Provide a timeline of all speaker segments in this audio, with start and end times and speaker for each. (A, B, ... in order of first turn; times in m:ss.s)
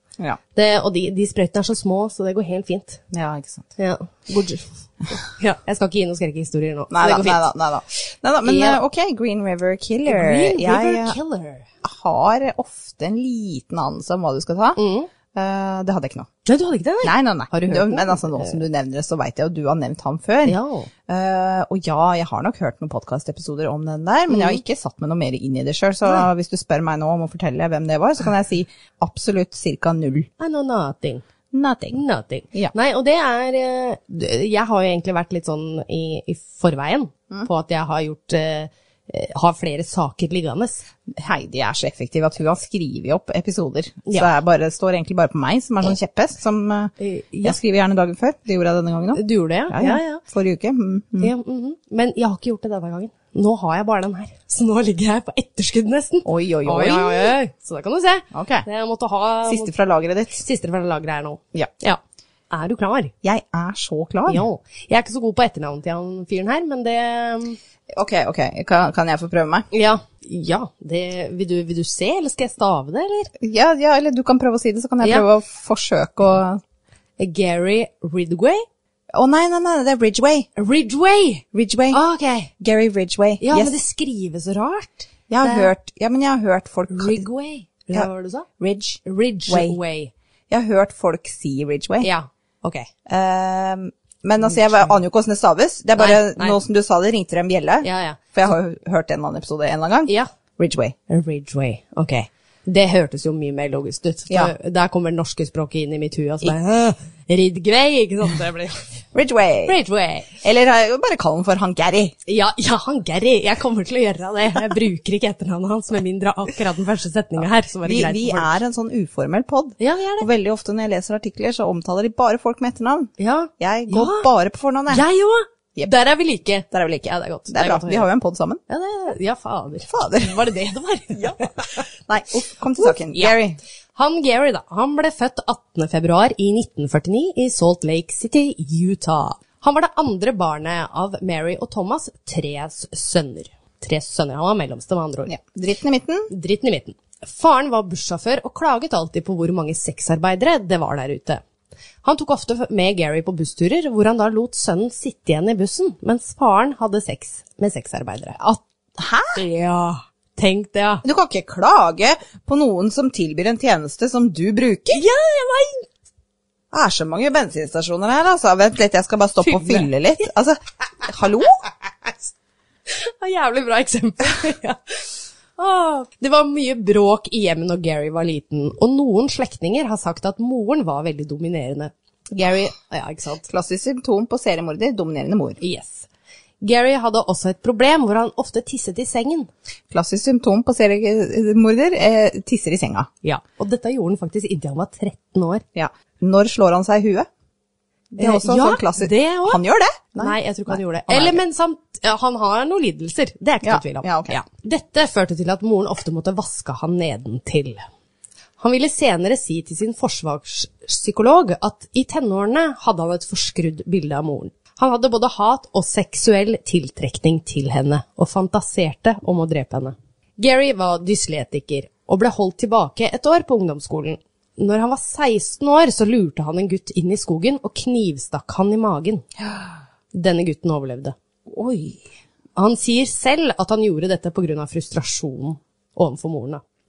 0:00.5-0:03.0 A
0:03.1-0:03.7 B
0:03.8-0:07.4 A
0:06.9-0:11.2 B
0:08.4-0:08.8 A
0:10.1-0:11.7 A
0:11.8-0:14.8 B
0:14.8-0:15.1 A
0:15.3-0:16.3 B
0:16.4-0:18.6 A
0:17.0-0:20.6 B
0:20.4-0:20.9 A
0:21.1-0:30.3 B
0:24.3-0:24.6 A
0:30.4-0:31.2 A
0:31.5-0:32.0 B
0:31.9-0:40.8 A
0:41.1-0:51.3 B
0:47.0-0:47.6 A
0:49.1-0:50.2 A
0:51.2-0:59.7 A
0:56.2-0:57.3 B
0:58.3-0:58.6 B
0:59.4-1:00.4 B
1:00.4-1:03.1 A
1:03.2-1:04.4 B
1:04.3-1:07.6 A
1:08.0-1:09.6 B
1:09.7-1:13.3 A
1:13.4-1:16.6 B
1:17.2-1:18.6 A
1:19.1-1:20.5 B
1:20.6-1:22.5 A
1:21.5-1:22.0 B
1:22.6-1:23.7 B
1:23.4-1:25.7 A
1:25.3-1:27.3 B
1:26.9-1:28.5 A
1:27.9-1:29.8 B
1:29.0-1:30.1 A
1:30.5-1:32.1 B
1:32.0-1:32.9 A
1:33.1-1:40.9 B
1:34.4-1:34.9 A
1:36.0-1:36.6 A
1:37.8-1:38.2 A
1:41.1-1:48.9 A
1:44.3-1:44.5 B
1:49.1-1:49.8 B
1:49.6-1:50.3 A
1:50.4-1:52.1 B
1:52.2-1:58.6 A
1:57.8-2:05.0 B
1:59.8-2:00.3 A
2:03.2-2:04.3 A
2:04.9-2:08.1 A
2:06.7-2:08.6 B
2:08.7-2:11.8 A
2:09.9-2:10.4 B
2:12.0-2:13.6 B
2:12.8-2:13.4 A
2:13.9-2:25.3 A
2:25.3-2:26.3 B
2:26.3-2:31.4 A
2:32.0-2:38.6 A
2:39.0-2:39.4 B
2:39.3-2:41.0 A
2:41.0-2:45.0 B
2:44.9-2:45.9 A
2:46.7-2:51.6 B
2:49.4-2:50.2 A
2:52.9-3:03.5 A
3:03.5-3:05.6 B
3:05.6-3:06.1 A
3:06.6-3:09.5 A
3:09.9-3:13.1 B
3:13.2-3:15.6 A
3:15.7-3:17.3 B
3:18.1-3:21.4 B
3:18.2-3:19.6 A
3:20.2-3:27.8 A
3:23.6-3:24.4 B
3:28.6-3:49.2 A
3:49.4-3:49.7 B
3:50.1-3:51.1 A
3:51.5-3:52.0 B
3:52.6-3:56.6 A